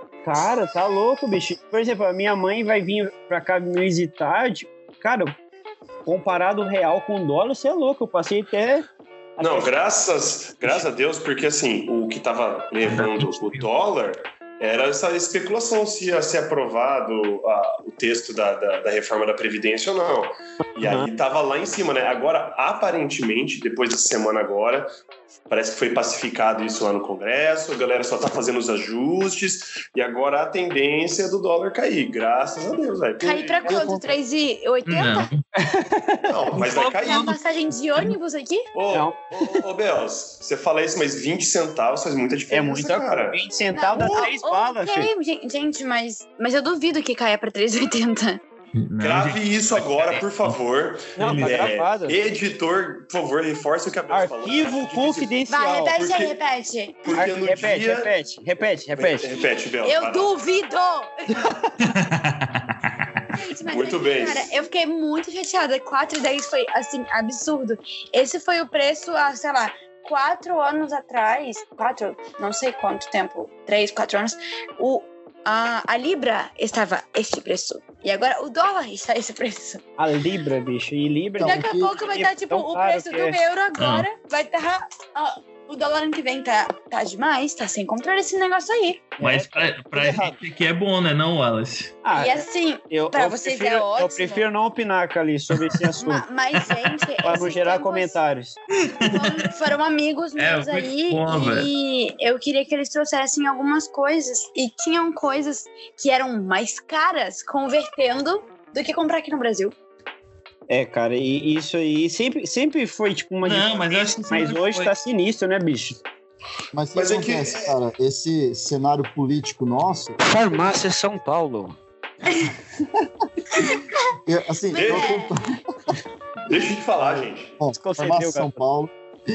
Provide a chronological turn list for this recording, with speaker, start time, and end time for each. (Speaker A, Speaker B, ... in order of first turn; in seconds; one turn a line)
Speaker A: 0.2-5.4
Speaker A: 6.0-9.8
Speaker B: 9.4-24.9
Speaker C: 12.9-13.7
Speaker A: 20.8-21.1
Speaker B: 25.5-33.7
Speaker D: 33.2-34.1
Speaker E: 33.2-35.3
Speaker C: 34.9-35.4
Speaker A: 35.5-36.3
Speaker B: 36.3-37.4
Speaker C: 36.5-37.4
Speaker E: 37.0-38.7
Speaker B: 38.7-43.4
Speaker A: 38.9-39.6
Speaker A: 42.5-45.1
Speaker E: 43.7-48.4
Speaker B: 44.0-44.3
Speaker C: 48.7-50.6
Speaker B: 49.0-55.4
Speaker A: 51.2-52.2
Speaker C: 51.2-51.7
Speaker A: 54.1-56.0
Speaker E: 55.5-57.0
Speaker B: 55.9-56.4
Speaker B: 57.0-58.1
Speaker A: 57.1-59.3
Speaker B: 59.0-60.3
Speaker E: 59.8-61.4
Speaker C: 61.8-62.8
Speaker E: 63.3-79.8
Speaker B: 63.7-64.5
Speaker A: 80.0-83.4
Speaker D: 81.4-82.0
Speaker E: 81.4-89.2
Speaker C: 83.8-84.0
Speaker A: 89.2-90.4
Speaker C: 89.2-92.0
Speaker A: 92.0-96.3
Speaker E: 92.1-94.5
Speaker E: 96.0-98.2
Speaker A: 97.2-98.6
Speaker C: 98.8-99.5
Speaker E: 99.0-109.7
Speaker C: 100.4-101.7
Speaker A: 110.7-116.0
Speaker C: 113.4-114.9
Speaker D: 116.7-120.7
Speaker B: 117.0-117.8
Speaker A: 120.2-121.8
Speaker E: 123.5-123.8
Speaker D: 124.3-126.0
Speaker E: 124.7-125.4
Speaker B: 124.8-125.1
Speaker B: 126.5-127.5
Speaker D: 126.7-128.9
Speaker A: 127.7-128.6